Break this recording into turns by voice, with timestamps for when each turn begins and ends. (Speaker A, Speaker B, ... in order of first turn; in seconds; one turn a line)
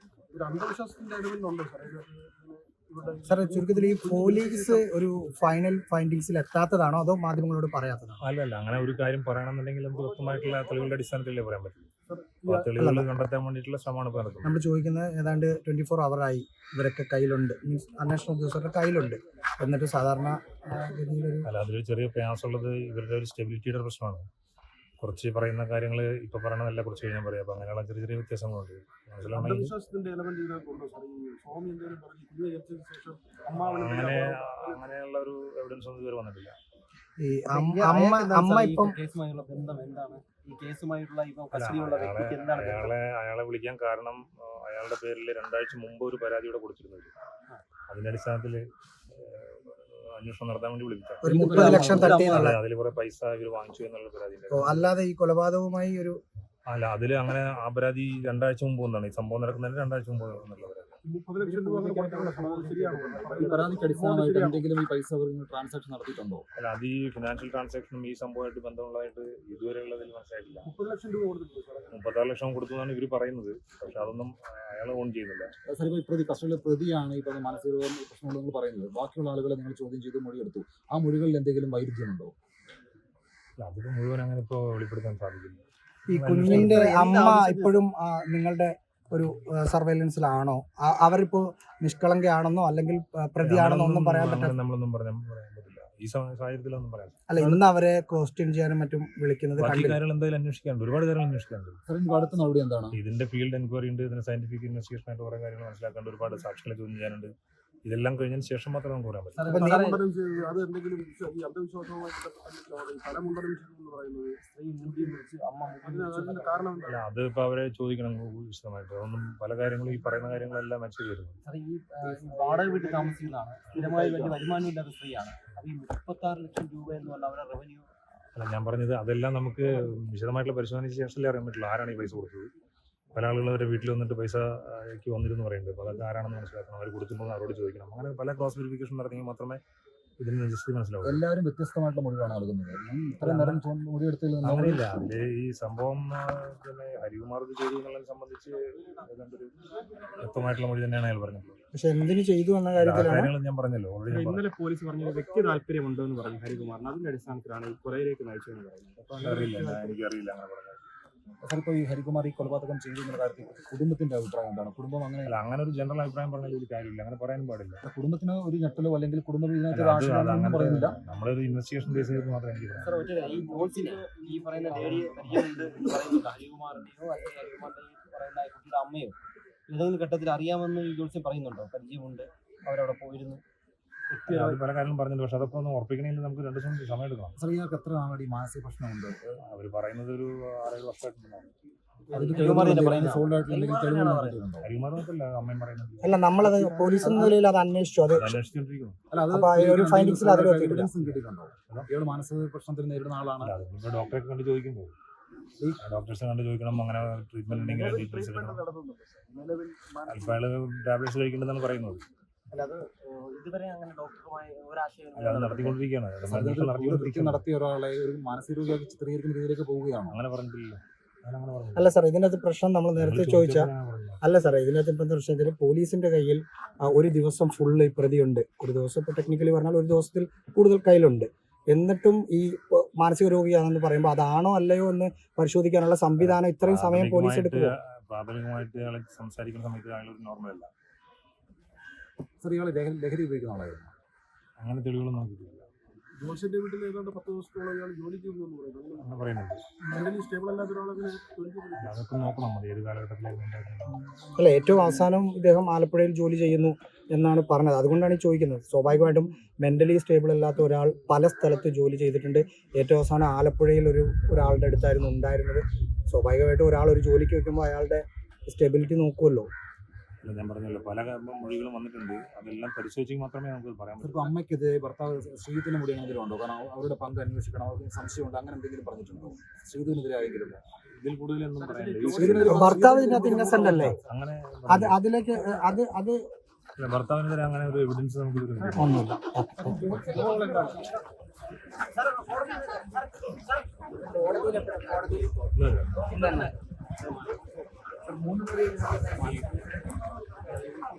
Speaker A: 0.3-4.8
Speaker B: 3.2-8.2
Speaker C: 8.2-11.9
Speaker A: 12.1-12.7
Speaker C: 12.5-14.6
Speaker B: 12.7-13.1
Speaker B: 14.4-21.5
Speaker C: 21.4-24.2
Speaker C: 25.0-29.8
Speaker A: 29.3-34.8
Speaker C: 33.5-36.5
Speaker B: 37.2-39.0
Speaker D: 37.5-42.9
Speaker C: 41.5-47.1
Speaker C: 47.9-54.9
Speaker B: 51.2-52.6
Speaker E: 51.3-52.1
Speaker D: 51.3-52.5
Speaker B: 54.5-56.2
Speaker C: 56.7-61.0
Speaker A: 61.1-64.6
Speaker F: 61.4-63.8
Speaker E: 63.4-66.4
Speaker C: 66.5-70.7
Speaker A: 70.7-71.9
Speaker C: 71.9-75.5
Speaker E: 75.7-82.3
Speaker C: 83.6-87.0
Speaker B: 86.1-94.6
Speaker D: 86.4-87.8
Speaker C: 93.4-97.6
Speaker B: 97.3-100.0
Speaker C: 99.6-101.8
Speaker E: 101.8-103.0
Speaker C: 102.9-107.3
Speaker C: 107.8-109.5
Speaker D: 109.3-110.0
Speaker B: 109.5-109.9
Speaker A: 109.7-114.3
Speaker D: 114.4-116.8
Speaker A: 115.9-117.0
Speaker C: 116.8-121.4
Speaker D: 121.4-127.9
Speaker F: 122.2-122.8
Speaker F: 123.8-124.3
Speaker C: 128.3-132.5
Speaker C: 133.1-139.6
Speaker C: 140.2-141.2
Speaker E: 141.0-144.8
Speaker C: 143.2-143.6
Speaker C: 144.4-149.5
Speaker C: 150.2-151.6
Speaker B: 151.7-153.3
Speaker C: 152.7-154.5
Speaker F: 154.1-159.4
Speaker C: 159.1-160.8
Speaker E: 161.4-165.3
Speaker C: 165.2-167.8
Speaker E: 167.8-171.0
Speaker C: 169.7-173.1
Speaker D: 172.8-179.2
Speaker D: 179.7-183.4
Speaker D: 184.1-184.6
Speaker C: 184.3-187.4
Speaker E: 187.4-189.4
Speaker C: 189.4-191.5
Speaker D: 192.1-194.4
Speaker E: 192.1-194.7
Speaker C: 194.6-196.2
Speaker B: 196.0-198.4
Speaker D: 196.4-197.4
Speaker C: 198.1-199.0
Speaker E: 199.1-203.6
Speaker B: 199.3-200.9
Speaker C: 201.0-201.9
Speaker C: 203.4-204.9
Speaker C: 205.8-208.6
Speaker F: 207.6-208.3
Speaker D: 208.4-210.1
Speaker C: 210.1-212.0
Speaker D: 212.5-215.8
Speaker C: 215.2-217.5
Speaker E: 216.2-220.2
Speaker C: 220.1-221.9
Speaker B: 221.7-223.7
Speaker C: 222.9-224.2
Speaker B: 224.2-237.7
Speaker C: 236.2-240.7
Speaker E: 242.4-243.9
Speaker C: 244.6-245.7
Speaker A: 246.2-249.0
Speaker C: 249.0-249.6
Speaker A: 249.8-252.0
Speaker C: 251.8-254.0
Speaker B: 254.4-269.5
Speaker C: 270.2-274.3
Speaker E: 274.0-280.6
Speaker C: 280.9-282.7
Speaker A: 281.7-282.4
Speaker E: 282.1-284.0
Speaker B: 282.4-284.0
Speaker C: 283.8-285.0
Speaker B: 284.7-286.2
Speaker C: 286.8-289.0
Speaker B: 288.7-289.9
Speaker E: 289.8-290.6
Speaker D: 292.1-292.9
Speaker D: 294.2-295.1
Speaker C: 295.5-296.1
Speaker D: 296.1-296.5
Speaker E: 298.1-299.5